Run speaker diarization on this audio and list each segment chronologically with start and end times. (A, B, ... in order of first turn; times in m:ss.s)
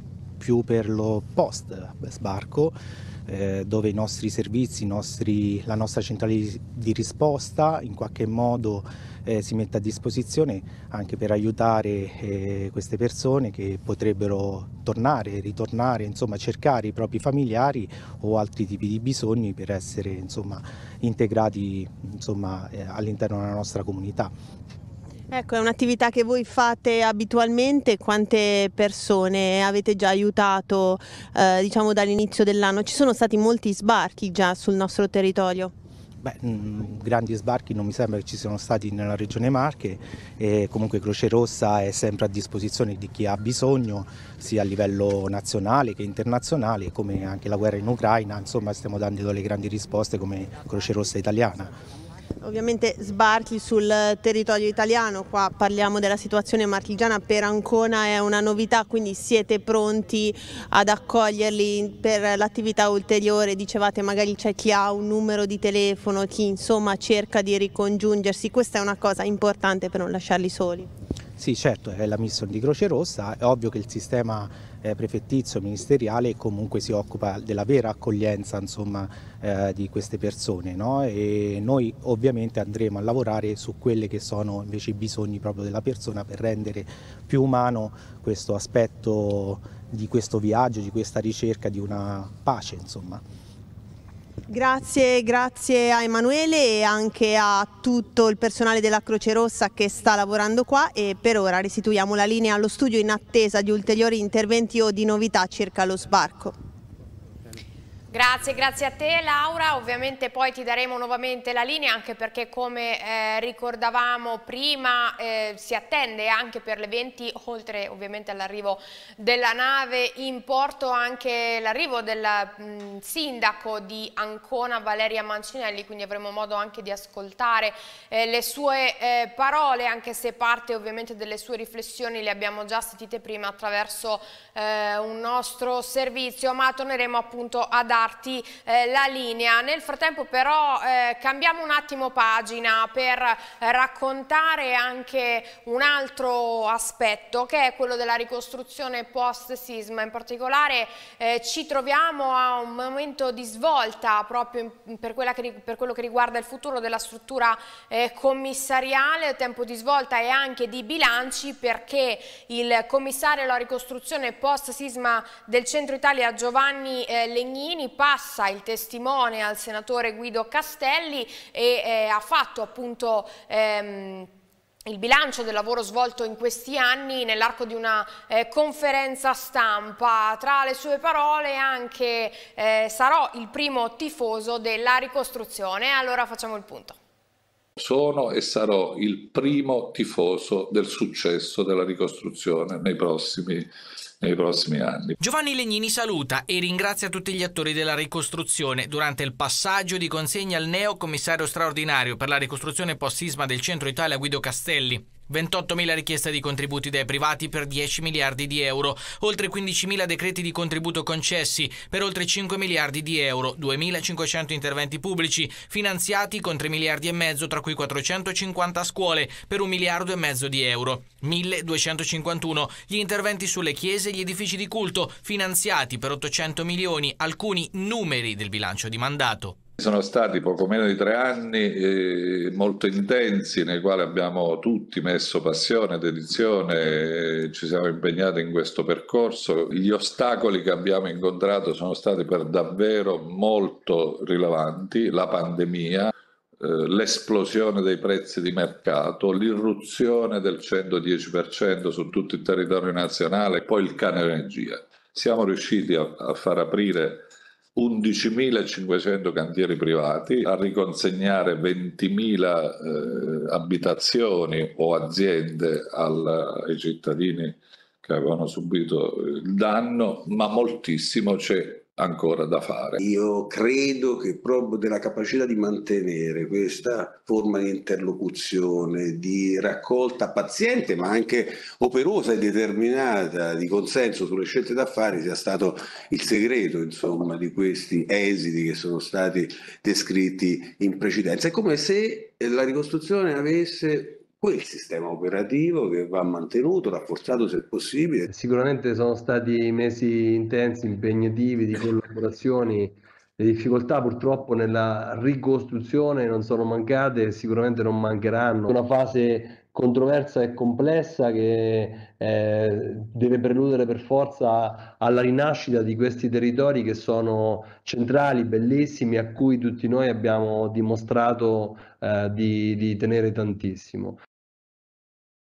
0:00.4-0:24.3 A
0:25.3-0:35.7 B
0:36.2-0:51.7 A
0:52.4-1:10.9 B
1:11.4-1:33.2 A
1:34.5-1:46.5 B
1:48.1-2:54.3 C
2:54.8-3:07.0 C
3:07.8-3:15.2 D
3:15.2-3:49.6 E
3:49.8-4:33.0 D
4:33.0-4:58.3 F
4:58.3-5:24.2 G